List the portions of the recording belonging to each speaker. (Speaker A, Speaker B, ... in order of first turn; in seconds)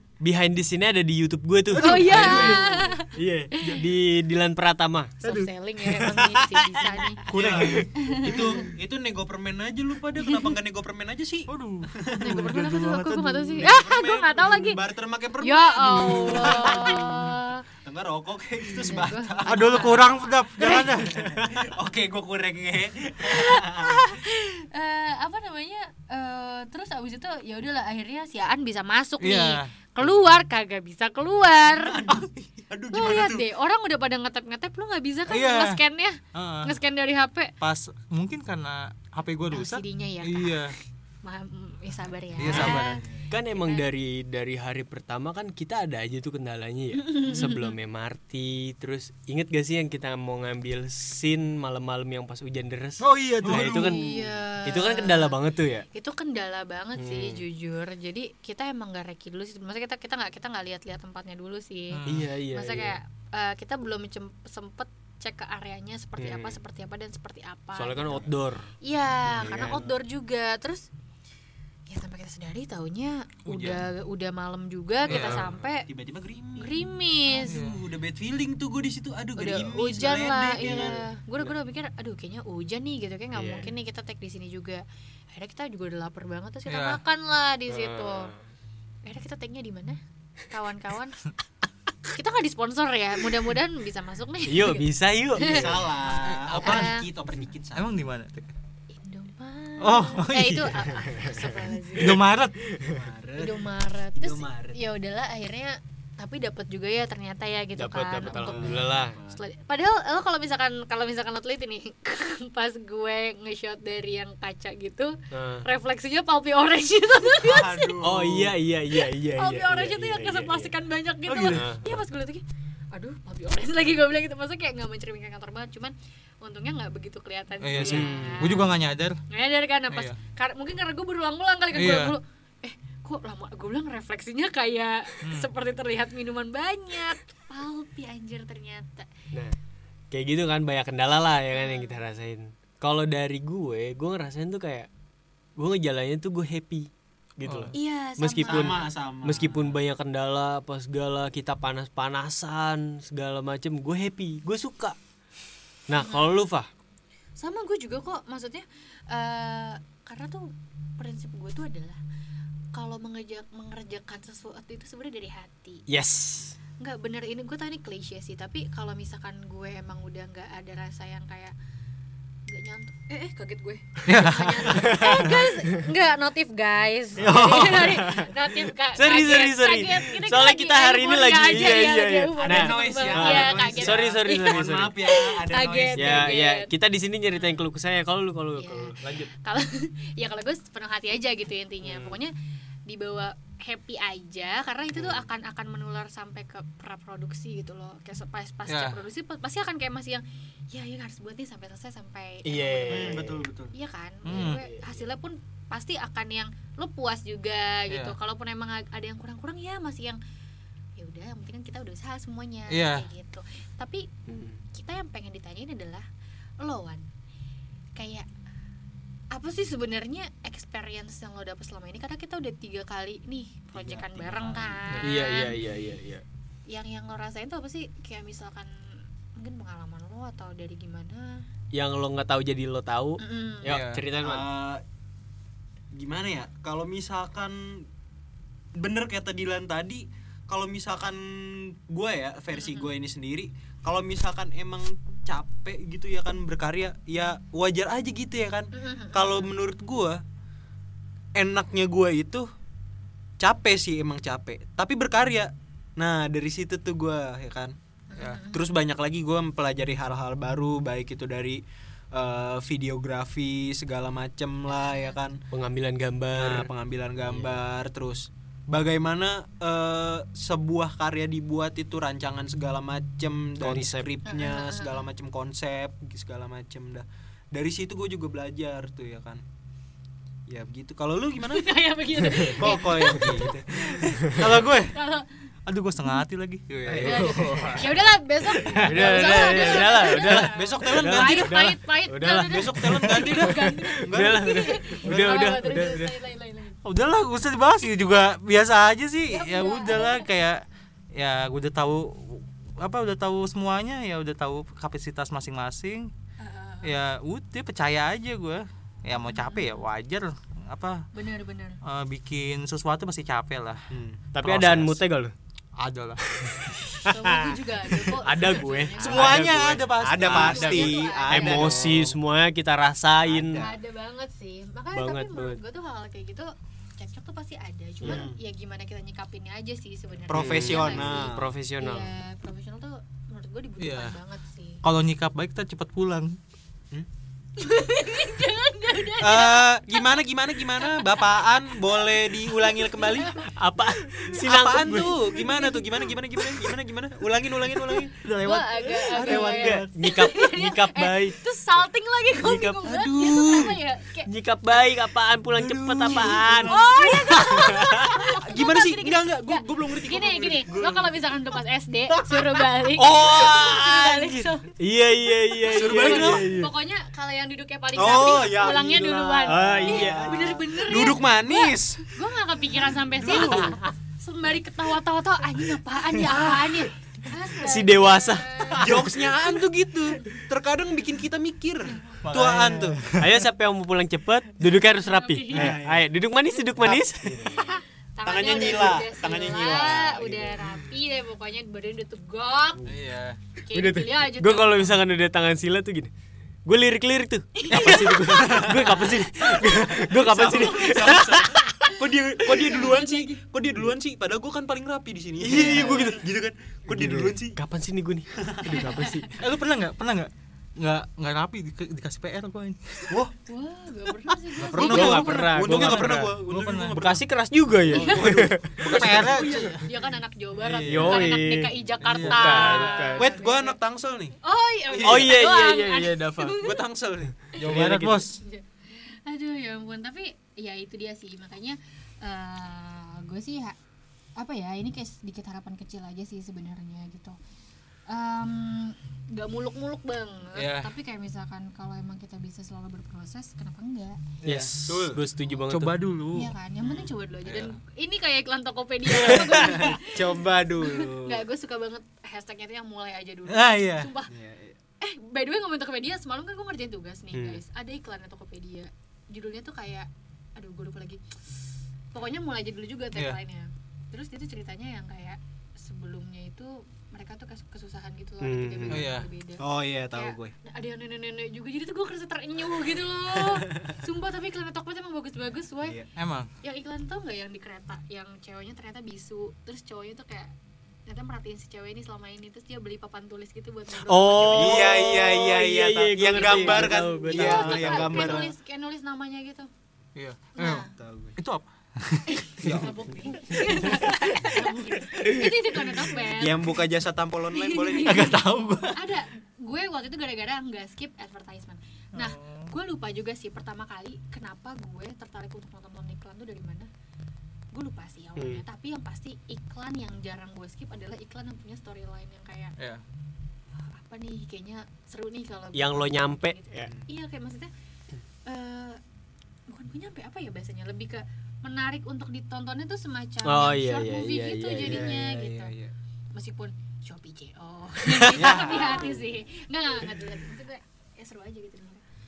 Speaker A: 0.2-5.2, 5.8-7.9, 43.3-54.1, 54.6-55.9, 57.0-57.5, 62.1-63.0, 66.2-66.6, 67.8-68.7, 69.3-69.9, 75.1-75.6, 83.3-83.7, 87.7-88.4, 94.5-95.8, 101.0-101.5, 102.7-103.0, 107.8-109.2, 115.3-115.7, 118.0-120.7, 121.5-121.9, 127.8-128.7, 140.1-144.9, 145.6-155.0, 155.9-156.7, 165.9-166.6, 174.7-175.8, 177.2-178.4, 178.9-184.9, 186.0-189.3, 191.8-192.2, 202.4-203.3, 204.3-204.9, 214.3-214.6, 225.0-226.2, 231.7-234.5, 265.5-266.7, 267.3-267.6, 273.6-274.1, 284.2-284.4, 286.9-287.9, 288.8-296.1, 314.3-315.3, 316.4-323.7, 324.9-325.6, 330.3-332.1, 343.5-345.2, 349.2-351.4, 352.4-352.8, 354.3-356.8, 357.3-358.2, 363.1-363.8, 364.8-366.7, 369.5-370.4, 373.3-373.9, 377.6-379.1, 382.4-387.7, 393.7-396.1, 396.7-401.9, 405.4-406.2, 406.9-409.3, 414.8-416.4, 416.9-418.8, 420.9-423.3, 425.0-426.6, 444.4-446.0, 457.3-457.6, 468.4-469.1, 484.0-488.2, 508.4-508.6, 515.8-516.9, 523.4-525.5, 528.0-528.8
Speaker B: 1.7-2.9, 5.2-5.5, 7.3-7.9, 11.5-13.8, 16.0-17.3, 19.4-21.2, 29.2-29.7, 32.1-32.4, 35.3-35.8, 36.3-36.8, 37.6-40.8, 42.4-43.0, 53.0-54.0, 61.9-62.3, 73.5-73.8, 75.1-75.5, 77.4-77.8, 86.7-87.0, 96.2-96.9, 97.7-98.5, 99.8-100.9, 102.0-102.5, 121.3-121.7, 127.6-129.2, 129.9-130.2, 131.7-132.2, 135.2-135.5, 147.4-147.8, 174.1-175.2, 177.3-177.7, 198.7-199.0, 204.2-204.6, 207.9-208.2, 212.7-213.1, 233.7-234.0, 258.2-258.4, 284.3-285.0, 285.7-287.6, 288.7-289.4, 296.8-306.1, 306.8-311.1, 311.8-313.9, 314.4-315.0, 315.8-316.2, 319.0-321.0, 333.8-334.2, 334.8-336.4, 348.2-349.9, 382.2-383.3, 392.9-393.4, 409.4-413.1, 414.6-417.0, 418.8-419.9, 422.0-423.0, 427.6-428.4, 440.6-440.9, 444.4-444.7, 445.7-446.5, 447.5-447.8, 453.5-454.1, 463.1-463.4, 468.9-469.3, 476.2-476.5, 488.0-488.5, 490.1-490.9, 491.4-492.8, 498.0-499.1, 502.2-502.7, 512.8-513.0
Speaker C: 1.8-3.9, 5.2-7.2, 8.0-8.7, 10.2-10.5, 12.2-14.8, 15.4-17.6, 18.8-21.0, 23.2-32.1, 32.9-37.5, 39.5-43.9, 47.0-47.8, 53.7-55.4, 55.9-68.3, 68.8-70.9, 71.9-75.9, 76.6-77.6, 79.4-88.3, 89.0-91.2, 92.1-97.1, 98.9-102.2, 103.4-118.0, 118.9-128.8, 129.3-139.1, 141.5-142.0, 147.7-148.9, 156.0-156.3, 157.4-162.0, 162.7-165.9, 166.8-171.6, 172.5-186.7, 187.3-187.6, 188.6-192.3, 192.9-210.2, 211.0-214.1, 214.7-216.1, 216.6-217.1, 217.9-218.3, 219.3-225.6, 226.7-231.4, 233.2-233.8, 242.5-242.9, 248.7-249.5, 258.1-258.7, 264.7-265.2, 274.2-275.1, 281.4-285.3, 287.0-296.8, 299.3-300.3, 306.4-307.0, 309.2-309.9, 311.1-311.8, 317.0-321.8, 323.5-334.8, 337.6-341.4, 342.7-343.5, 344.9-346.1, 348.4-354.3, 356.6-379.3, 385.0-385.8, 387.6-392.9, 393.7-395.0, 397.6-398.8, 402.5-403.4, 408.7-409.3, 413.5-415.6, 417.9-423.8, 424.4-426.9, 427.7-433.8, 434.4-437.4, 438.1-444.2, 446.3-454.3, 455.0-461.2, 462.1-476.0, 476.6-480.5, 481.1-485.1, 486.3-489.7, 490.6-490.9, 492.3-496.8, 497.5-506.9, 507.7-512.8, 513.8-517.7, 518.5-519.0, 519.7-525.8, 526.4-532.0
Speaker D: 7.3-12.5, 13.6-17.2, 17.8-20.1, 20.8-24.1, 31.7-33.5, 42.4-43.3, 53.4-54.2, 75.3-81.0, 95.4-97.9, 102.8-104.8, 108.3-109.4, 117.4-118.6, 148.5-149.8, 177.2-177.9, 182.4-186.4, 202.9-203.7, 223.7-225.0, 234.2-234.8, 235.9-237.9, 238.8-250.2, 251.4-252.5, 253.4-257.8, 258.5-261.6, 262.1-265.4, 266.3-279.4, 280.5-281.7, 282.4-283.9, 289.3-291.7, 292.3-295.6, 313.9-314.2, 319.1-322.2, 323.2-323.8, 328.0-328.4, 330.3-331.5, 339.2-343.4, 344.4-348.2, 352.8-353.8, 355.6-361.4, 362.1-364.2, 365.7-366.5, 367.9-372.1, 373.2-373.8, 378.7-383.0, 385.5-386.1, 386.8-387.5, 388.2-390.6, 397.7-407.6, 408.4-408.8, 414.6-417.2, 417.8-419.9, 420.6-421.3, 422.7-424.4, 424.9-425.5, 426.6-428.3, 444.9-445.2, 446.8-447.1, 449.1-451.5, 454.3-454.8, 469.6-470.5, 484.4-488.5, 490.9-491.4, 492.6-493.6, 496.3-498.4, 516.8-517.1, 524.8-525.9, 528.3-529.2